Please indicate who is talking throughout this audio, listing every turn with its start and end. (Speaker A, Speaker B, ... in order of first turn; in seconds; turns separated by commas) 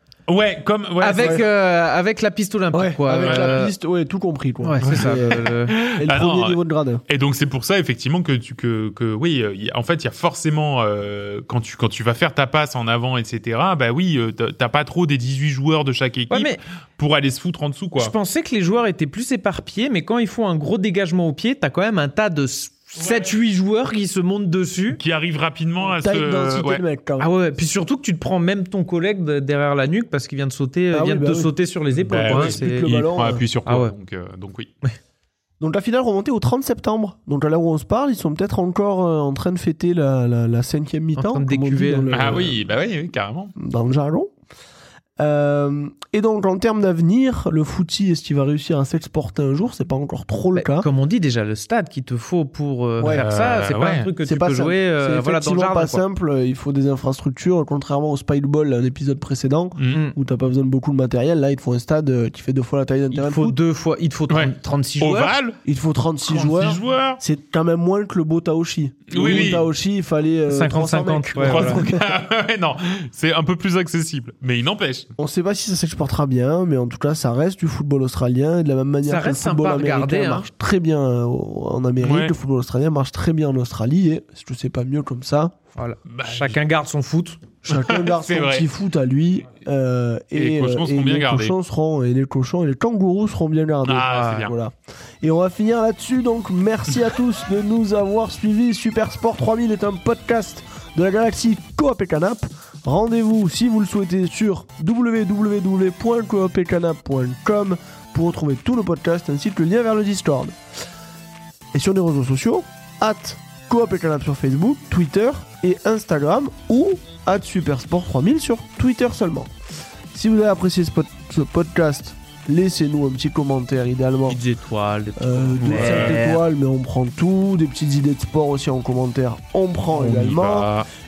Speaker A: 0.3-1.4, Speaker B: 1.0-3.7, Speaker C: 1.1-1.4, Speaker C: 2.7-7.0, Speaker A: 3.2-3.6, Speaker B: 4.6-5.7, Speaker A: 4.8-18.1, Speaker B: 16.3-16.6, Speaker B: 18.0-25.0, Speaker A: 23.0-23.3, Speaker A: 24.9-26.8, Speaker C: 26.0-27.3, Speaker B: 27.2-32.9, Speaker C: 30.9-31.5, Speaker A: 31.9-34.7, Speaker C: 32.1-33.4, Speaker B: 33.6-33.9, Speaker C: 35.6-42.6, Speaker B: 41.1-42.1, Speaker A: 42.1-43.5, Speaker C: 43.5-44.3, Speaker C: 45.2-50.9, Speaker B: 50.5-56.0, Speaker C: 53.0-53.3, Speaker A: 53.1-54.1, Speaker C: 54.2-63.5, Speaker A: 59.8-60.0, Speaker B: 63.1-65.3, Speaker A: 64.3-65.6, Speaker C: 65.6-72.0, Speaker A: 66.3-67.2, Speaker A: 69.1-69.7, Speaker B: 70.5-71.8, Speaker A: 71.4-75.1, Speaker C: 75.2-85.5, Speaker B: 79.0-80.5, Speaker A: 82.0-82.3, Speaker B: 85.8-87.4, Speaker A: 86.0-86.6, Speaker C: 87.6-110.5, Speaker A: 87.7-88.7, Speaker A: 90.3-91.5, Speaker A: 93.8-94.5, Speaker B: 94.1-94.4, Speaker C: 111.7-119.5, Speaker C: 120.1-124.4, Speaker B: 124.3-126.4, Speaker C: 125.2-130.7, Speaker A: 125.6-126.3, Speaker A: 129.9-130.9